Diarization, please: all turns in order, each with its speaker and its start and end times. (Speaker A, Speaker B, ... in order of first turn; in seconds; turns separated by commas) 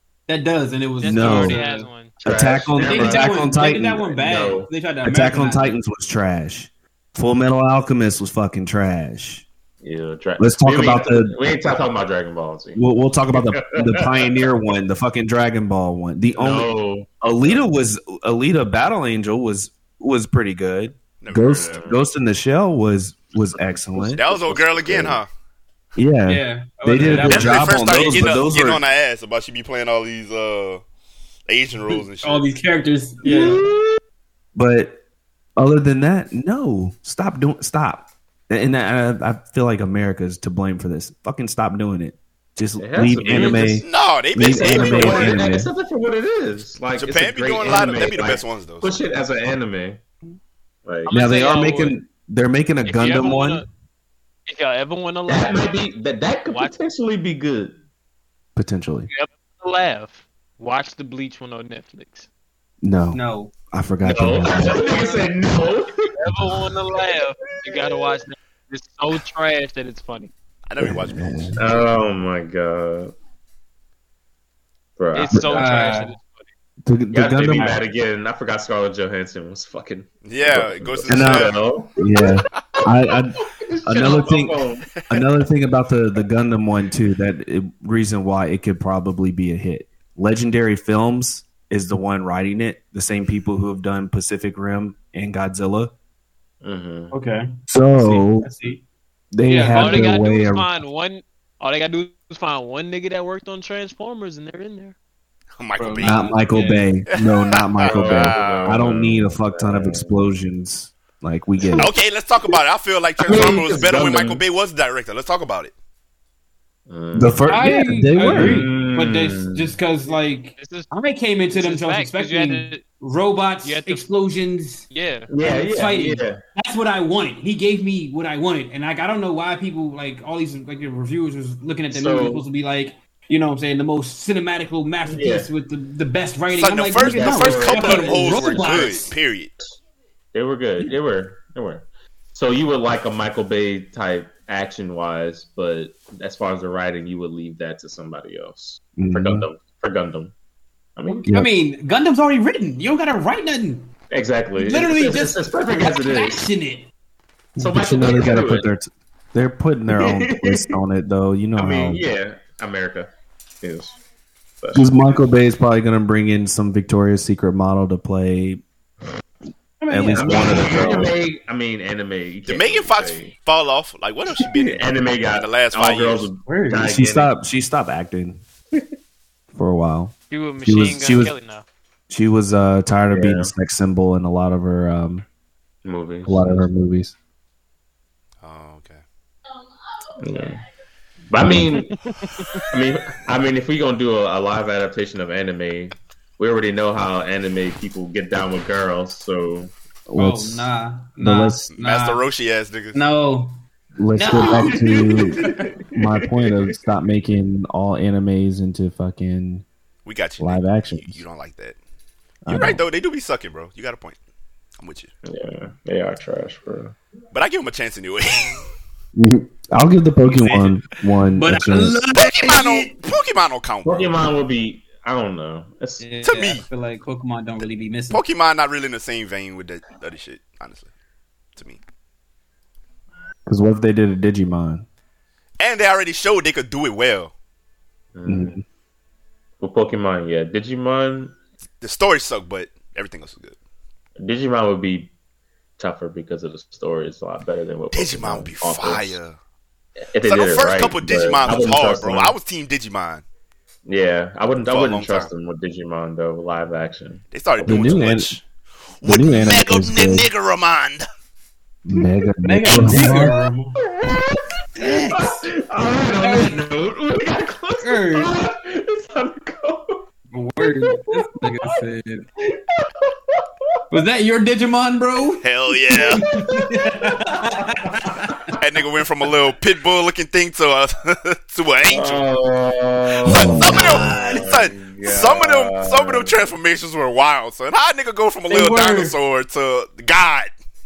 Speaker A: 0.3-1.9, Speaker B: 1.0-2.1, Speaker C: 1.0-1.6, Speaker D: 2.2-4.7, Speaker C: 2.2-4.0, Speaker A: 2.7-5.8, Speaker C: 5.0-9.4, Speaker D: 9.8-14.4, Speaker C: 10.4-11.4, Speaker C: 12.7-25.2, Speaker D: 16.4-17.6, Speaker E: 21.2-21.9, Speaker D: 21.4-22.0, Speaker E: 24.0-25.3, Speaker C: 25.9-28.8, Speaker A: 26.3-28.3, Speaker D: 27.1-27.5, Speaker E: 27.1-30.8, Speaker E: 31.5-32.5, Speaker A: 32.2-33.6, Speaker D: 33.2-34.0, Speaker C: 34.5-35.0, Speaker C: 35.6-45.7, Speaker D: 42.8-43.8, Speaker A: 43.3-43.6, Speaker E: 43.7-45.4, Speaker D: 44.4-50.0, Speaker E: 47.0-49.0, Speaker D: 50.9-51.1, Speaker B: 51.1-52.0, Speaker C: 51.1-53.6, Speaker B: 52.8-53.7, Speaker B: 54.5-55.7, Speaker D: 55.3-57.8, Speaker B: 56.5-56.7, Speaker C: 58.6-59.1, Speaker B: 59.1-62.3, Speaker C: 62.8-64.8, Speaker A: 63.1-63.5, Speaker D: 64.0-66.0, Speaker A: 64.7-65.3, Speaker B: 66.2-70.3, Speaker D: 67.6-68.2, Speaker E: 70.7-71.9, Speaker C: 70.8-71.6, Speaker D: 71.6-73.1, Speaker D: 75.0-75.8, Speaker B: 75.1-76.5, Speaker A: 75.5-76.1, Speaker C: 76.8-77.8, Speaker D: 77.1-82.0, Speaker E: 80.2-81.6, Speaker C: 81.1-95.9, Speaker D: 83.5-85.0, Speaker E: 84.9-85.3, Speaker D: 96.6-97.1, Speaker A: 97.1-98.8, Speaker C: 97.7-98.5, Speaker C: 99.3-100.7, Speaker A: 99.5-100.1, Speaker B: 99.7-105.0, Speaker E: 105.6-106.2, Speaker A: 105.8-106.2, Speaker C: 106.0-111.9, Speaker B: 106.1-106.9, Speaker E: 107.2-108.9, Speaker D: 107.8-110.3, Speaker E: 111.8-115.7, Speaker D: 113.2-114.4, Speaker D: 116.9-117.5, Speaker C: 117.1-118.7, Speaker A: 117.4-124.9, Speaker D: 118.2-119.8, Speaker B: 120.1-120.9, Speaker B: 121.5-122.8, Speaker B: 123.6-124.1, Speaker B: 124.9-125.3, Speaker D: 125.3-126.4, Speaker A: 125.4-139.1, Speaker D: 131.9-132.4, Speaker D: 135.1-135.5, Speaker E: 136.5-139.5, Speaker D: 137.0-138.9, Speaker D: 140.3-150.3, Speaker C: 148.9-149.5, Speaker D: 150.9-151.3, Speaker A: 151.1-153.9, Speaker D: 154.1-156.4, Speaker A: 154.6-156.9, Speaker C: 157.6-162.0, Speaker D: 157.6-158.7, Speaker D: 159.9-160.7, Speaker D: 161.6-163.1, Speaker D: 163.6-164.0, Speaker D: 164.6-165.2, Speaker C: 164.7-168.6, Speaker A: 169.8-171.1, Speaker C: 169.9-171.1, Speaker D: 170.2-173.3, Speaker E: 172.5-176.3, Speaker D: 174.4-177.3, Speaker A: 176.4-176.9, Speaker C: 176.8-178.4, Speaker C: 179.5-181.3, Speaker B: 180.3-181.7, Speaker C: 182.1-185.2, Speaker D: 183.1-183.5, Speaker D: 185.8-186.7, Speaker C: 186.3-187.2, Speaker E: 188.4-189.0, Speaker D: 190.2-190.6, Speaker D: 191.3-191.9, Speaker B: 191.9-192.7, Speaker D: 192.7-199.7, Speaker C: 200.1-201.7, Speaker A: 200.2-202.3, Speaker E: 201.7-203.0, Speaker A: 202.9-203.6, Speaker C: 204.0-209.7, Speaker A: 204.2-205.7, Speaker D: 205.4-206.4, Speaker E: 210.1-211.8, Speaker C: 210.4-211.2, Speaker C: 212.4-212.8, Speaker E: 212.5-214.2, Speaker E: 214.8-215.1, Speaker D: 215.3-216.9, Speaker E: 217.3-218.7, Speaker C: 219.2-222.0, Speaker A: 220.2-220.8, Speaker A: 221.4-223.1, Speaker E: 222.1-224.2, Speaker D: 223.8-226.1, Speaker A: 226.0-228.2, Speaker E: 226.2-226.7, Speaker E: 228.1-230.9, Speaker C: 233.4-234.9, Speaker E: 235.6-237.3, Speaker D: 238.1-238.6, Speaker C: 238.3-238.6, Speaker D: 239.6-241.3, Speaker E: 241.8-243.6, Speaker D: 244.2-245.1, Speaker D: 245.8-249.2, Speaker E: 247.9-249.4, Speaker D: 250.1-252.3, Speaker E: 250.2-253.2, Speaker D: 253.9-257.2, Speaker E: 254.7-255.3, Speaker E: 257.3-258.4, Speaker C: 257.6-258.3, Speaker E: 259.0-261.0, Speaker C: 259.0-260.3, Speaker C: 261.9-263.4, Speaker A: 262.4-263.8, Speaker D: 262.7-263.3, Speaker D: 263.9-270.1, Speaker A: 264.8-265.4, Speaker A: 266.1-266.6, Speaker A: 267.8-268.3, Speaker A: 270.3-272.2, Speaker D: 270.9-271.7, Speaker D: 272.5-274.0, Speaker A: 273.9-278.6, Speaker E: 275.4-276.2, Speaker D: 276.3-278.4, Speaker E: 278.6-282.3, Speaker D: 281.9-286.3, Speaker E: 283.2-290.5, Speaker C: 283.3-284.3, Speaker A: 283.6-284.2, Speaker A: 288.5-289.2